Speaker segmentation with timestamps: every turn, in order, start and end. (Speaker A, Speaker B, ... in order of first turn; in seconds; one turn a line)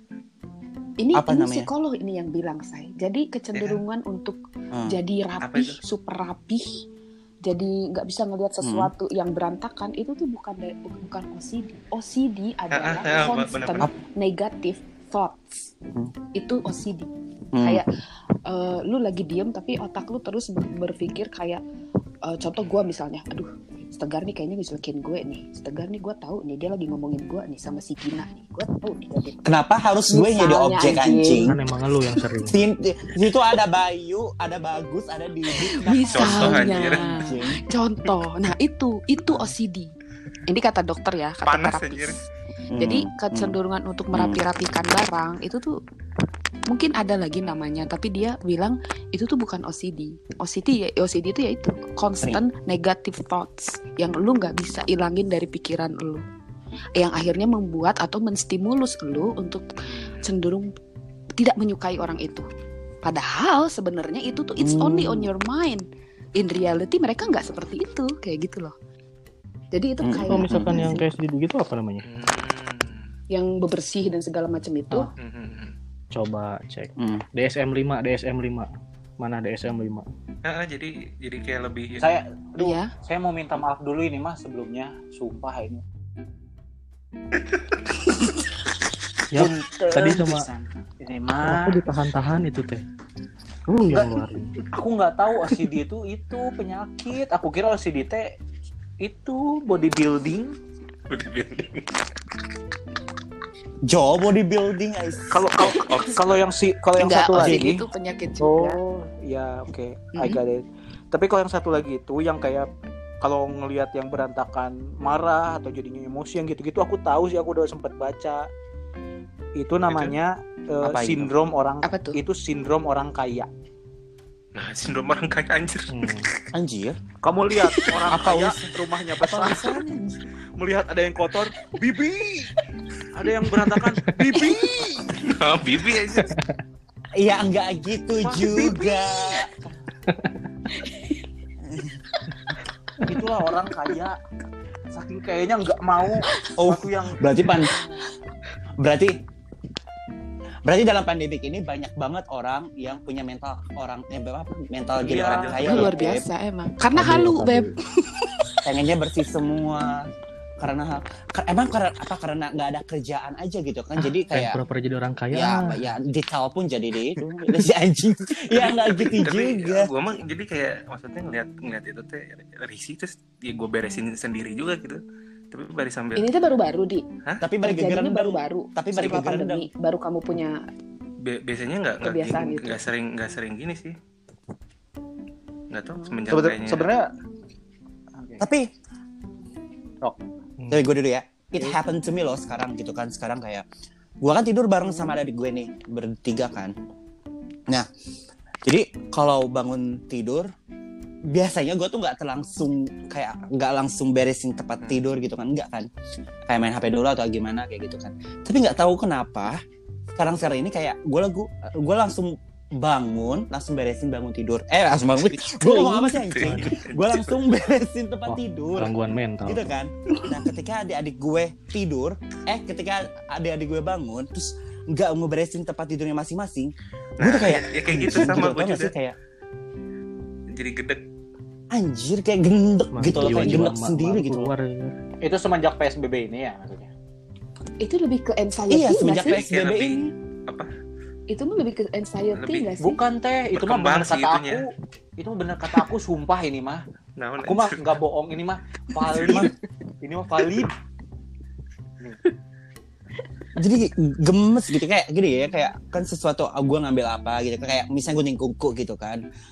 Speaker A: 1.0-6.8
Speaker B: 1.1-1.7
Speaker C: 3.5-3.8
Speaker B: 4.7-5.0
Speaker C: 5.4-5.8
Speaker A: 7.4-15.5
Speaker B: 8.6-8.9
Speaker C: 12.7-13.9
Speaker A: 16.3-17.9
Speaker B: 17.5-17.8
Speaker A: 18.4-21.6
Speaker A: 22.2-29.5
Speaker B: 29.4-31.6
Speaker A: 30.1-31.6
Speaker D: 31.5-32.6
Speaker B: 32.4-37.6
Speaker A: 35.5-39.9
Speaker C: 36.1-37.2
Speaker A: 40.5-42.2
Speaker C: 41.4-42.2
Speaker B: 42.7-43.5
Speaker A: 42.8-45.8
Speaker B: 44.1-44.4
Speaker A: 46.7-56.2
Speaker A: 57.0-60.7
Speaker C: 59.8-60.2
Speaker A: 61.4-62.5
Speaker A: 63.0-65.8
Speaker B: 64.6-65.3
Speaker A: 66.3-68.7
Speaker A: 69.7-71.0
Speaker B: 70.0-71.0
Speaker D: 70.3-72.1
Speaker C: 72.0-73.1
Speaker A: 73.3-75.1
Speaker C: 75.2-75.7
Speaker D: 76.1-80.1
Speaker B: 77.0-77.2
Speaker C: 80.4-82.0
Speaker E: 81.9-85.8
Speaker A: 82.6-82.9
Speaker D: 89.3-90.5
Speaker B: 89.3-90.2
Speaker E: 89.4-91.8
Speaker D: 91.4-92.8
Speaker D: 93.7-94.6
Speaker E: 93.9-94.1
Speaker E: 94.7-98.3
Speaker E: 99.0-100.5
Speaker C: 101.1-102.0
Speaker B: 103.8-105.7
Speaker E: 105.3-107.8
Speaker C: 105.6-106.5
Speaker A: 107.0-108.8
Speaker B: 107.3-107.7
Speaker E: 108.4-112.7
Speaker E: 113.2-118.5
Speaker E: 119.5-123.5
Speaker C: 119.9-120.2
Speaker B: 120.8-121.3
Speaker A: 121.8-122.2
Speaker C: 124.5-125.9
Speaker D: 125.9-126.3
Speaker B: 126.5-127.0
Speaker E: 127.2-129.8
Speaker B: 128.1-130.2
Speaker E: 130.6-132.5
Speaker E: 133.1-135.2
Speaker C: 135.2-136.3
Speaker D: 136.2-136.6
Speaker B: 137.1-139.5
Speaker E: 138.2-139.5
Speaker D: 140.1-140.3
Speaker B: 141.7-142.0
Speaker E: 143.0-144.2
Speaker E: 144.9-147.2
Speaker B: 146.6-147.7
Speaker B: 148.8-149.2
Speaker B: 150.6-156.2
Speaker E: 155.0-156.0
Speaker A: 155.6-158.6
Speaker D: 156.9-157.8
Speaker B: 158.6-160.1
Speaker B: 160.6-164.6
Speaker D: 164.3-165.9
Speaker B: 165.3-169.9
Speaker C: 168.5-176.3
Speaker A: 176.2-177.0
Speaker B: 177.4-179.7
Speaker A: 177.6-180.6
Speaker C: 181.2-183.9
Speaker A: 182.0-182.8
Speaker C: 185.7-186.9
Speaker A: 185.9-186.2
Speaker E: 186.3-187.1
Speaker E: 188.2-188.4
Speaker B: 188.4-188.7
Speaker B: 190.7-193.6
Speaker B: 194.2-196.7
Speaker B: 198.6-200.5
Speaker B: 201.3-205.9
Speaker B: 206.5-209.6
Speaker B: 210.2-218.9
Speaker A: 215.6-216.2
Speaker C: 216.1-217.4
Speaker D: 216.4-216.8
Speaker D: 218.2-219.7
Speaker B: 219.4-229.1
Speaker C: 227.2-228.9
Speaker C: 230.5-231.0
Speaker B: 231.7-234.5
Speaker D: 232.9-235.0
Speaker E: 235.2-236.9
Speaker A: 237.8-239.4
Speaker B: 238.7-240.1
Speaker C: 239.2-240.7
Speaker A: 241.3-243.0
Speaker C: 242.3-242.7
Speaker E: 242.8-246.8
Speaker C: 243.5-244.7
Speaker C: 247.2-247.8
Speaker E: 247.4-250.7
Speaker C: 249.1-249.4
Speaker B: 249.2-249.5
Speaker B: 253.6-259.2